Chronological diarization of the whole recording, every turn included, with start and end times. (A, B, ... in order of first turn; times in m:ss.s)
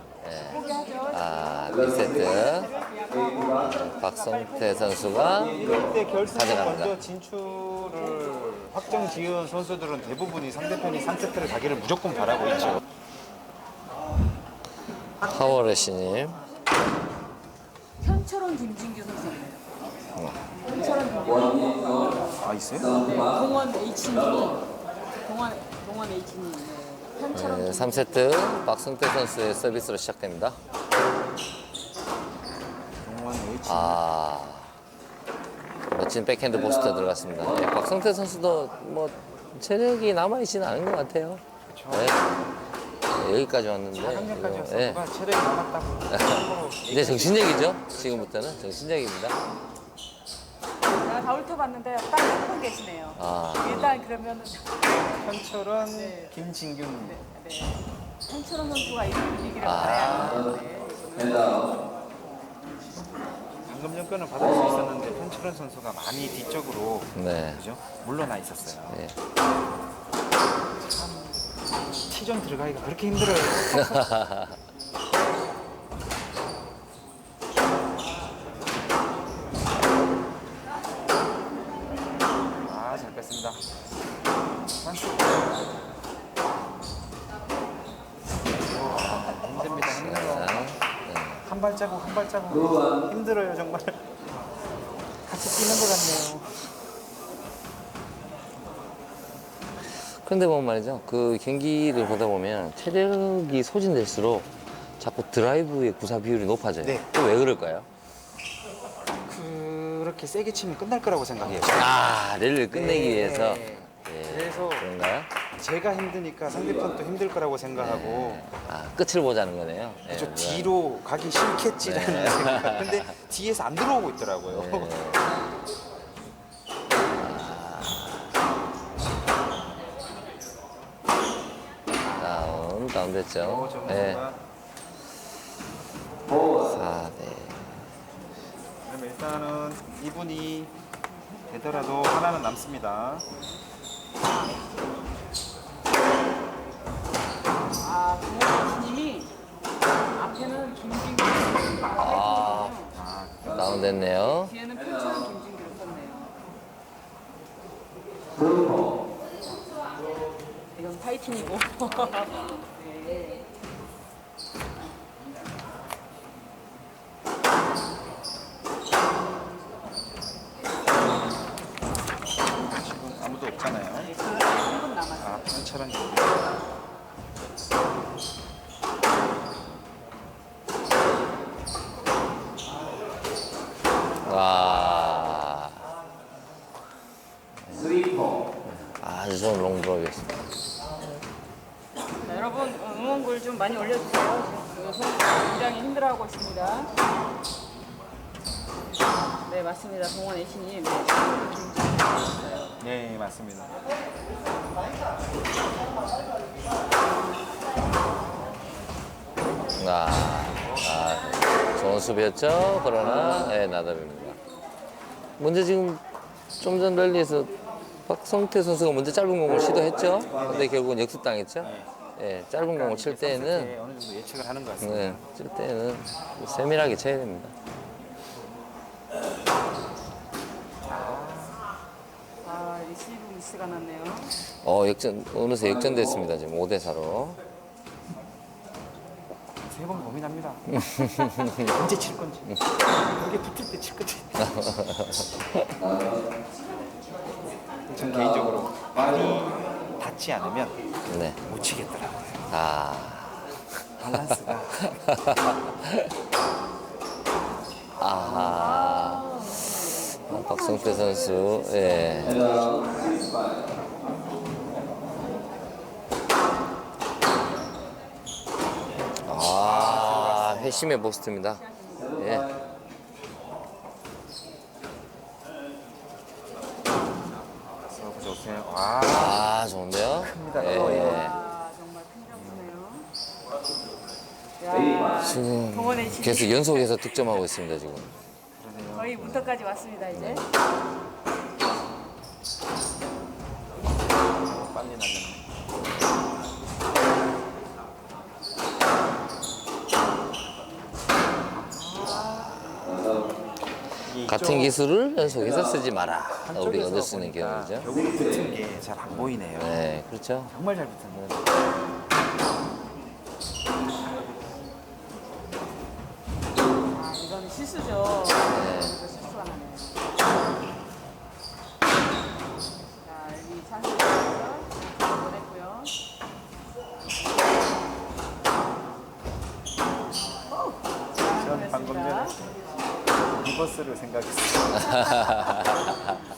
0:00.2-0:02.7 A
0:00.5-0:01.7 B
0:02.6-0:05.4 B
0:03.4-0:05.7 A
0:05.4-0:12.8 C
0:06.3-0:07.0 A
0:15.2-0:16.4 A
0:18.0-0:19.6 B
0:20.2-0:20.4 A
0:20.6-0:24.7 B
0:22.4-0:23.0 C
0:25.2-0:28.5 B
0:27.3-0:30.6 A
0:33.0-0:34.0 C
0:33.6-0:34.7 A
0:35.9-0:42.4 A
0:41.7-0:42.4 C
0:43.1-0:45.0 A
0:44.0-0:48.9 C
0:46.1-0:49.4 A
0:50.9-0:54.8 B
0:53.2-0:54.0 A
0:54.9-0:57.2 C
0:55.9-0:56.3 B
0:57.0-1:01.8 B
0:59.6-1:00.5 A
0:59.8-1:00.6 C
1:03.6-1:09.0 C
1:07.2-1:07.6 A
1:08.8-1:09.2 A
1:10.9-1:11.4 C
1:12.1-1:14.1 C
1:13.8-1:14.6 A
1:22.6-1:23.6 C
1:24.8-1:25.6 C
1:28.7-1:30.8 C
1:28.9-1:31.4 A
1:31.4-1:34.0 C
1:35.3-1:36.7 C
1:39.9-1:47.9 A
1:46.8-1:47.1 C
1:49.3-1:52.0 C
1:51.5-1:55.3 A
1:52.7-1:54.9 C
1:55.6-1:58.4 C
1:57.8-2:00.7 A
2:00.1-2:04.9 C
2:01.8-2:03.1 A
2:04.5-2:05.3 A
2:07.1-2:08.3 A
2:12.2-2:14.3 A
2:13.4-2:14.4 C
2:16.5-2:17.9 A
2:18.8-2:20.7 C
2:21.5-2:23.3 C
2:27.8-2:29.3 B
2:30.1-2:33.0 B
2:32.0-2:32.8 A
2:32.9-2:33.9 C
2:33.5-2:34.6 A
2:34.2-2:36.4 B
2:40.7-2:43.4 B
2:52.6-2:54.1 C
2:54.0-2:55.5 B
2:55.2-2:56.5 C
3:04.2-3:05.9 A
3:07.6-3:08.1 A
3:08.6-3:10.3 A
3:12.2-3:16.9 B
3:19.4-3:22.3 B
3:22.8-3:23.8 C
3:29.8-3:34.4 A
3:35.4-3:36.0 A
3:36.6-3:37.5 A
3:38.1-3:43.7 A
3:40.3-3:40.8 C
3:41.6-3:41.9 C
3:42.7-3:45.2 C
3:44.8-3:47.5 A
3:50.8-3:51.7 C
3:52.4-3:54.3 B
3:54.6-3:57.4 A
3:59.6-4:00.8 C
4:00.8-4:01.7 A
4:01.5-4:04.6 C
4:04.4-4:05.8 A
4:07.9-4:10.8 C
4:11.1-4:11.4 A
4:11.5-4:12.4 C
4:12.5-4:14.2 A
4:14.0-4:15.0 C
4:14.9-4:16.1 A
4:18.0-4:19.4 A
4:18.2-4:22.8 B
4:20.3-4:22.6 A
4:29.2-4:32.5 A
4:29.6-4:31.0 C
4:31.5-4:32.2 B
4:37.8-4:39.6 C
4:39.0-4:41.4 A
4:40.2-4:41.3 C
4:40.7-4:43.1 B
4:44.6-4:47.1 B
4:45.1-4:48.1 A
4:48.6-4:49.2 C
4:48.9-4:50.5 B
4:49.1-4:49.5 A
4:50.1-4:50.5 A
4:54.5-4:55.4 C
5:01.6-5:02.7 C
5:02.5-5:03.1 A
5:04.0-5:04.8 C
5:04.2-5:08.0 A
5:06.4-5:09.8 C
5:09.1-5:10.5 A
5:10.5-5:11.4 C
5:16.9-5:20.1 B
5:18.5-5:19.0 A
5:23.0-5:25.9 B
5:30.5-5:32.4 B
5:31.2-5:32.5 C
5:33.2-5:35.8 C
5:34.8-5:36.1 A